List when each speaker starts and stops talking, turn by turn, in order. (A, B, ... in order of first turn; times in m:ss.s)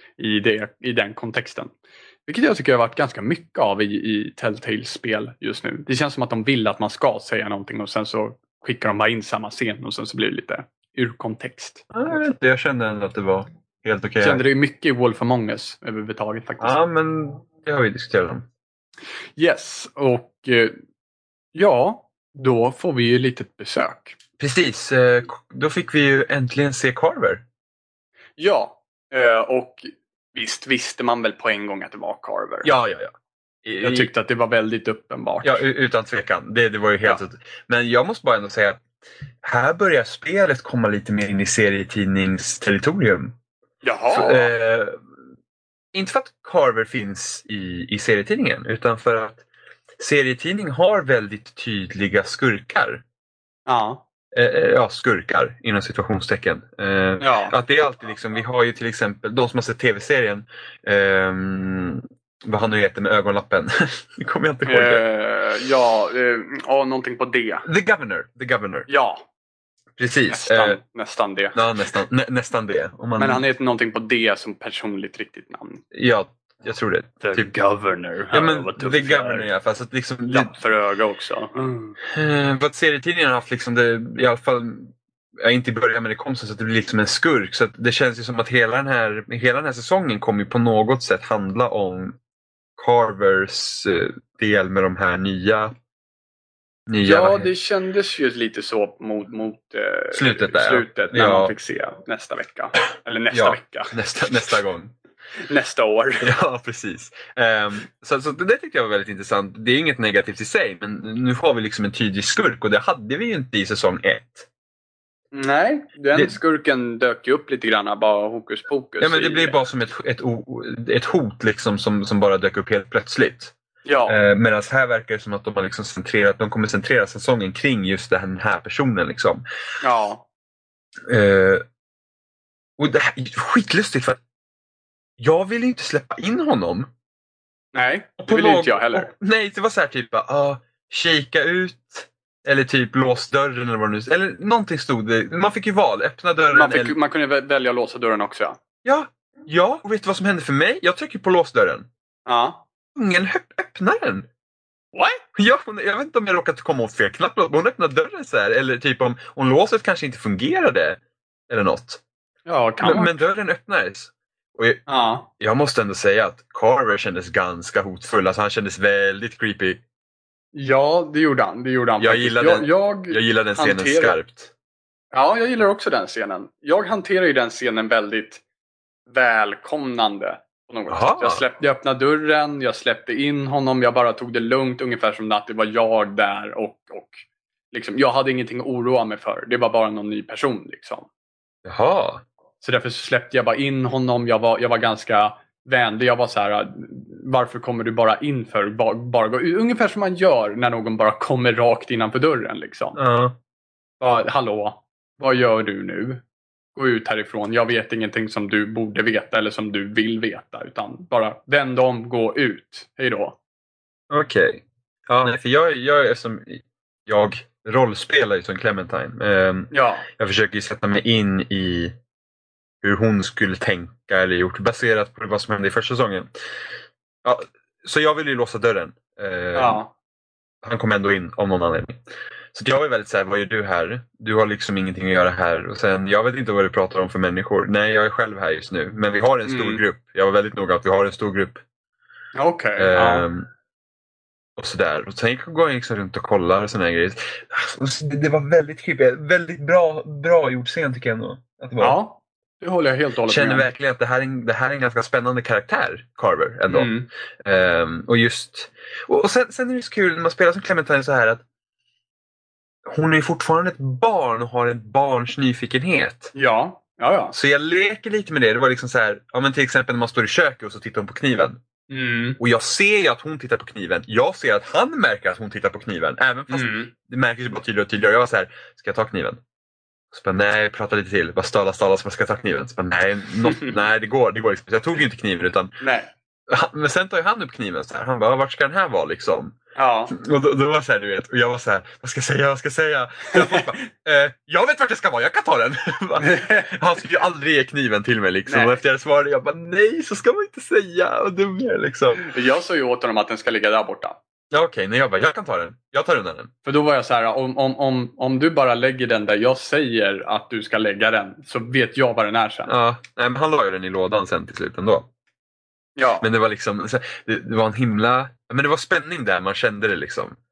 0:00.2-0:01.7 A
0:02.3-0:11.9 A
0:11.9-0:14.4 B
0:14.2-0:16.8 A
0:16.6-0:18.5 B
0:19.4-0:20.8 A
0:21.6-0:24.2 A
0:24.4-0:27.4 B
0:28.4-0:32.7 A
0:32.6-0:33.1 B
0:33.6-0:34.1 B
0:33.8-0:35.6 A
0:35.4-0:38.8 B
0:39.4-0:43.4 B
0:43.8-0:44.5 A
0:44.1-0:45.0 B
0:45.9-0:49.4 B
0:50.0-0:53.0 B
0:53.7-0:54.0 A
0:54.3-1:05.0 B
0:57.2-0:57.6 A
1:04.7-1:07.7 A
1:07.6-1:08.9 B
1:08.9-1:09.2 A
1:10.0-1:10.8 B
1:10.3-1:11.6 A
1:11.6-1:13.4 B
1:13.2-1:15.8 A
1:15.9-1:17.5 B
1:17.2-1:19.5 A
1:18.3-1:20.5 B
1:20.3-1:22.0 A
1:22.0-1:32.2 B
1:32.8-1:35.7 B
1:36.9-1:37.5 B
1:37.0-1:44.0 A
1:40.1-1:41.5 B
1:43.3-1:45.0 B
1:45.4-1:46.3 A
1:46.2-1:54.5 B
1:55.3-1:59.6 A
1:59.0-2:03.5 B
2:03.8-2:04.2 A
2:04.1-2:09.4 B
2:09.8-2:10.2 A
2:11.1-2:11.6 B
2:12.8-2:14.2 B
2:15.2-2:16.9 B
2:17.7-2:19.1 A
2:18.2-2:27.0 B
2:26.5-2:28.6 A
2:28.8-2:31.9 B
2:32.3-2:32.6 A
2:33.0-2:34.3 B
2:34.9-2:35.2 A
2:35.4-2:42.0 B
2:42.5-2:43.2 A
2:42.8-2:44.8 B
2:44.9-2:45.3 A
2:45.4-2:49.8 B
2:50.5-2:54.2 A
2:52.0-2:54.5 B
2:55.1-2:58.4 A
2:59.1-3:11.1 A
3:00.9-3:01.4 B
3:11.6-3:12.2 B
3:12.6-3:23.0 A
3:23.0-3:23.4 B
3:24.0-3:26.2 A
3:26.8-3:33.4 A
3:34.1-3:41.9 B
3:39.7-3:40.1 A
3:42.8-3:46.3 B
3:47.2-3:49.8 B
3:49.6-3:49.9 A
3:50.6-3:52.0 B
3:52.5-4:01.6 B
3:59.5-3:59.8 A
4:02.4-4:03.3 A
4:02.8-4:03.5 B
4:04.6-4:12.0 B
4:11.8-4:13.8 A
4:13.3-4:21.4 B
4:16.7-4:17.1 A
4:22.9-4:26.3 B
4:26.3-4:27.4 A
4:27.3-4:31.6 B
4:31.9-4:32.4 A
4:32.4-4:39.4 B
4:36.5-4:36.9 A
4:40.1-4:45.8 B
4:43.4-4:43.8 A
4:45.8-4:46.1 A
4:46.5-4:49.6 B
4:49.8-4:50.2 A
4:50.1-5:02.2 B
4:53.3-4:53.7 A
4:56.2-4:56.7 A
4:58.5-4:58.8 A
5:02.2-5:04.2 A
5:04.5-5:06.5 B
5:06.6-5:12.7 A
5:12.7-5:15.1 B
5:16.0-5:16.3 A
5:16.2-5:20.4 B